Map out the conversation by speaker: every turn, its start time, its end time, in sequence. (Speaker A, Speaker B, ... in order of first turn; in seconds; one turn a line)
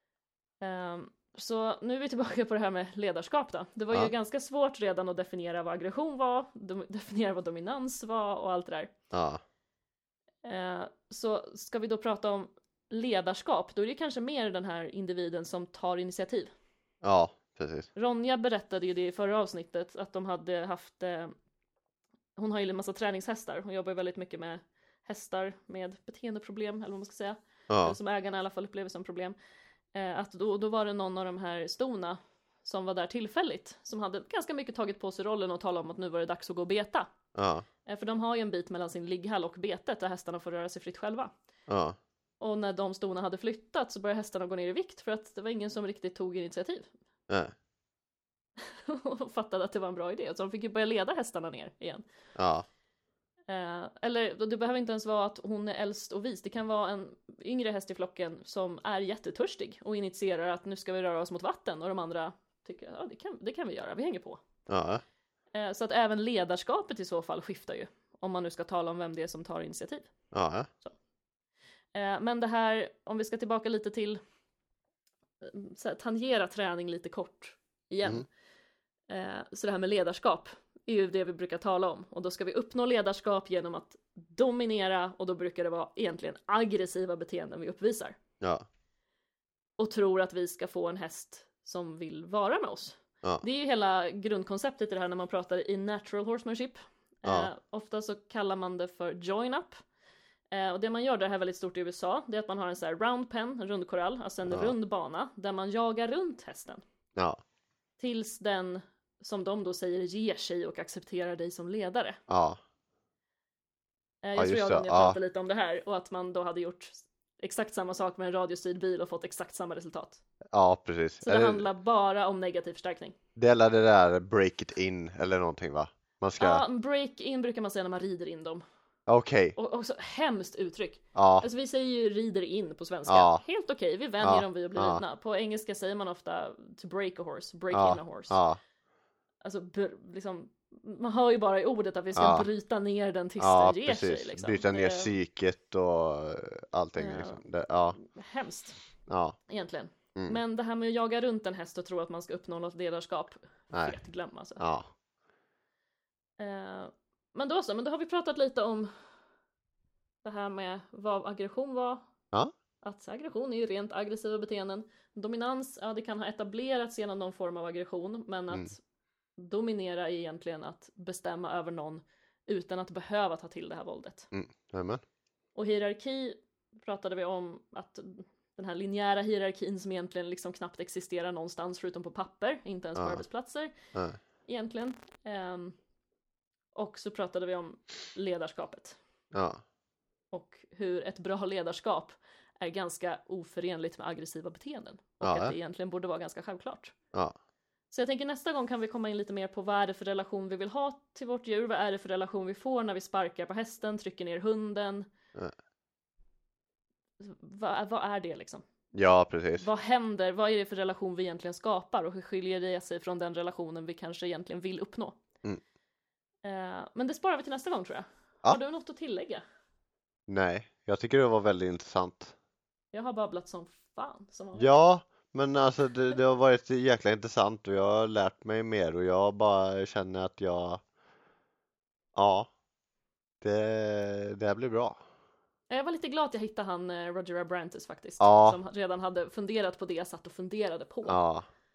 Speaker A: 0.6-8.9
Speaker B: 9.1-9.4
Speaker A: 10.4-16.5
Speaker B: 17.0-17.9
Speaker A: 17.9-21.3
Speaker A: 22.4-29.4
Speaker B: 27.7-28.0
Speaker A: 29.9-37.1
Speaker B: 37.4-37.7
Speaker A: 37.9-41.3
Speaker B: 41.7-42.0
Speaker A: 42.4-46.9
Speaker A: 48.6-52.0
Speaker B: 52.4-52.7
Speaker A: 53.5-64.4
Speaker B: 64.7-65.0
Speaker A: 65.5-70.1
Speaker B: 70.3-70.7
Speaker A: 71.9-74.2
Speaker A: 75.4-78.3
Speaker A: 79.1-88.2
Speaker B: 88.4-88.7
Speaker A: 89.8-99.8
Speaker A: 100.5-106.8
Speaker B: 104.5-104.7
Speaker B: 107.2-107.4
Speaker A: 108.0-112.2
Speaker B: 112.3-112.6
Speaker A: 114.2-120.2
Speaker B: 114.4-115.2
Speaker B: 120.5-121.6
Speaker A: 121.2-123.2
Speaker B: 123.4-126.6
Speaker A: 126.4-128.6
Speaker B: 129.1-129.6
Speaker A: 129.6-138.4
Speaker B: 131.2-131.5
Speaker B: 133.1-133.4
Speaker B: 134.2-135.0
Speaker B: 137.7-138.6
Speaker A: 139.4-145.1
Speaker B: 142.2-142.5
Speaker B: 143.4-148.0
Speaker A: 147.0-147.4
Speaker A: 148.0-148.8
Speaker B: 149.1-149.4
Speaker A: 149.5-154.6
Speaker B: 153.7-154.0
Speaker B: 154.6-154.9
Speaker A: 156.4-159.1
Speaker A: 160.2-162.1
Speaker A: 162.8-168.8
Speaker A: 169.4-174.3
Speaker B: 174.3-175.0
Speaker A: 175.6-183.7
Speaker B: 183.0-183.2
Speaker A: 184.5-185.8
Speaker A: 186.8-189.0
Speaker B: 189.3-189.6
Speaker A: 190.3-196.9
Speaker B: 195.2-195.6
Speaker A: 197.9-205.1
Speaker A: 207.2-208.6
Speaker B: 208.9-209.7
Speaker A: 209.6-215.2
Speaker A: 216.4-219.4
Speaker B: 220.3-222.3
Speaker A: 222.9-224.7
Speaker B: 224.6-230.8
Speaker B: 232.2-232.5
Speaker B: 233.4-235.0
Speaker A: 235.7-241.2
Speaker B: 238.2-238.6
Speaker B: 241.1-241.4